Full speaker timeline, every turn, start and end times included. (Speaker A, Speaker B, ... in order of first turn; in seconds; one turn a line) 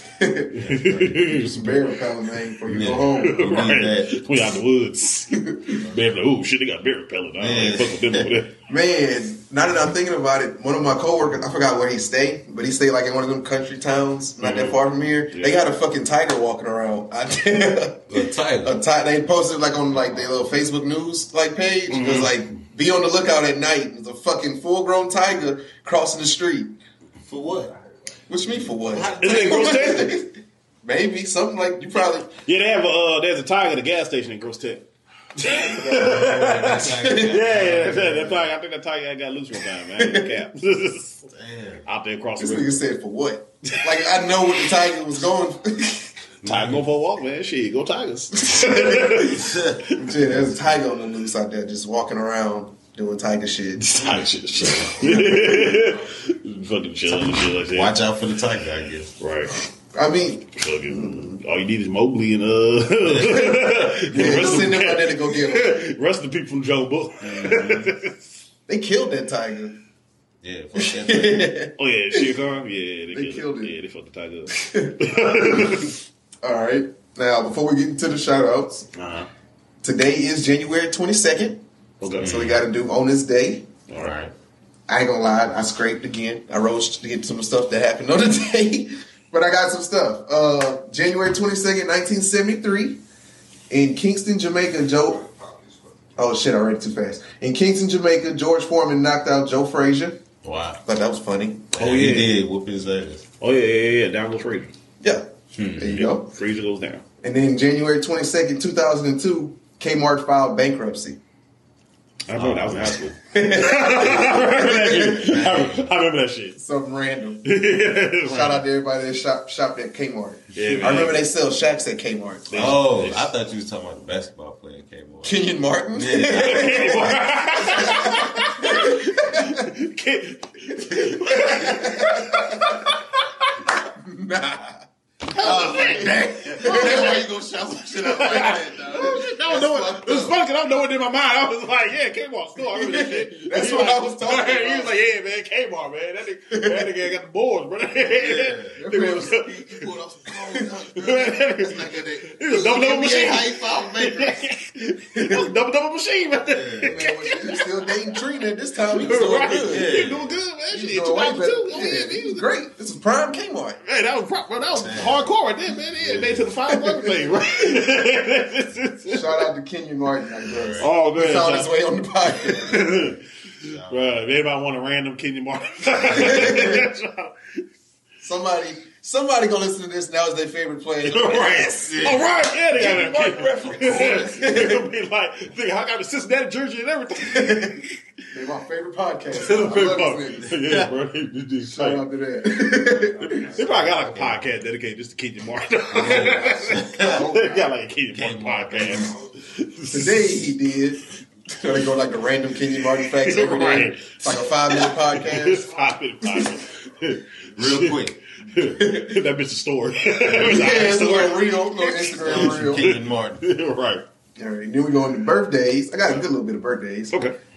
Speaker A: 0.2-0.6
Speaker B: 0.5-1.3
Speaker C: 0.6-1.8
Speaker A: 1.2-3.5
Speaker B: 2.7-4.2
Speaker C: 3.2-8.5
Speaker A: 5.3-5.8
Speaker B: 7.4-8.3
Speaker A: 8.7-26.8
Speaker C: 14.4-14.8
Speaker C: 15.3-15.6
Speaker B: 18.1-18.8
Speaker C: 21.9-22.4
Speaker B: 27.2-27.7
Speaker A: 28.3-32.3
Speaker B: 28.9-29.9
Speaker C: 29.2-30.2
Speaker C: 32.4-34.9
Speaker C: 35.4-41.3
Speaker A: 35.4-37.3
Speaker B: 35.4-38.5
Speaker A: 39.9-40.3
Speaker B: 41.3-41.8
Speaker C: 41.9-42.8
Speaker A: 42.4-46.1
Speaker C: 46.4-50.0
Speaker B: 46.4-46.8
Speaker A: 48.4-49.3
Speaker B: 48.6-50.5
Speaker A: 49.9-54.2
Speaker C: 53.8-58.0
Speaker A: 54.9-55.8
Speaker B: 57.1-59.1
Speaker C: 59.2-59.6
Speaker A: 59.9-61.3
Speaker C: 60.5-68.2
Speaker B: 63.0-64.3
Speaker A: 63.2-65.9
Speaker B: 67.2-68.0
Speaker A: 68.7-69.8
Speaker B: 70.4-71.5
Speaker A: 70.8-72.2
Speaker C: 71.8-75.9
Speaker A: 73.1-73.7
Speaker A: 74.5-75.8
Speaker A: 76.4-78.9
Speaker C: 78.9-79.3
Speaker A: 79.8-81.6
Speaker C: 82.0-82.4
Speaker A: 82.2-83.7
Speaker B: 82.2-82.6
Speaker C: 83.9-84.1
Speaker B: 83.9-84.3
Speaker A: 84.9-93.0
Speaker A: 93.7-95.3
Speaker A: 96.2-100.2
Speaker B: 100.4-100.8
Speaker A: 100.8-101.7
Speaker B: 101.7-103.2
Speaker C: 101.8-102.3
Speaker C: 103.4-104.7
Speaker A: 105.0-106.3
Speaker B: 105.5-106.0
Speaker C: 105.9-107.0
Speaker A: 107.2-111.2
Speaker C: 112.3-116.5
Speaker B: 112.3-113.0
Speaker A: 113.3-115.4
Speaker B: 114.2-116.0
Speaker A: 116.5-117.6
Speaker C: 117.4-118.6
Speaker A: 118.2-122.8
Speaker C: 120.5-121.2
Speaker B: 120.6-121.1
Speaker C: 122.5-123.3
Speaker B: 122.5-127.2
Speaker A: 125.2-129.7
Speaker C: 126.3-133.5
Speaker A: 130.7-132.9
Speaker A: 133.7-134.8
Speaker C: 135.3-137.2
Speaker A: 135.3-137.2
Speaker B: 135.4-139.3
Speaker C: 138.0-149.6
Speaker A: 138.2-140.4
Speaker A: 142.6-144.9
Speaker A: 146.5-147.0
Speaker B: 148.1-154.4
Speaker A: 148.8-149.4
Speaker C: 150.9-158.2
Speaker A: 155.2-155.4
Speaker B: 156.4-157.0
Speaker A: 156.8-159.9
Speaker C: 158.9-162.5
Speaker B: 159.6-160.4
Speaker A: 160.7-163.8
Speaker C: 163.8-169.5
Speaker B: 164.7-165.3
Speaker B: 165.9-166.5
Speaker A: 166.8-167.8
Speaker A: 169.1-172.9
Speaker B: 170.4-170.9
Speaker C: 170.8-171.8
Speaker C: 172.4-173.2
Speaker B: 172.6-174.3
Speaker C: 173.8-177.6
Speaker B: 175.9-176.6
Speaker A: 176.1-176.9
Speaker A: 178.2-182.2
Speaker C: 181.0-187.9
Speaker B: 181.8-182.3
Speaker A: 182.7-184.8
Speaker B: 183.8-184.7
Speaker A: 187.3-187.8
Speaker A: 188.3-190.5
Speaker C: 189.3-192.0
Speaker B: 190.5-190.9
Speaker A: 191.6-193.5
Speaker C: 193.3-200.4
Speaker B: 193.6-194.4
Speaker B: 195.9-197.2
Speaker A: 196.3-197.7
Speaker B: 198.1-199.2
Speaker A: 199.9-205.7
Speaker C: 202.8-214.0
Speaker B: 207.6-208.2
Speaker A: 208.8-209.2
Speaker A: 210.3-212.9
Speaker B: 210.3-210.6
Speaker B: 212.2-213.4
Speaker A: 214.4-217.2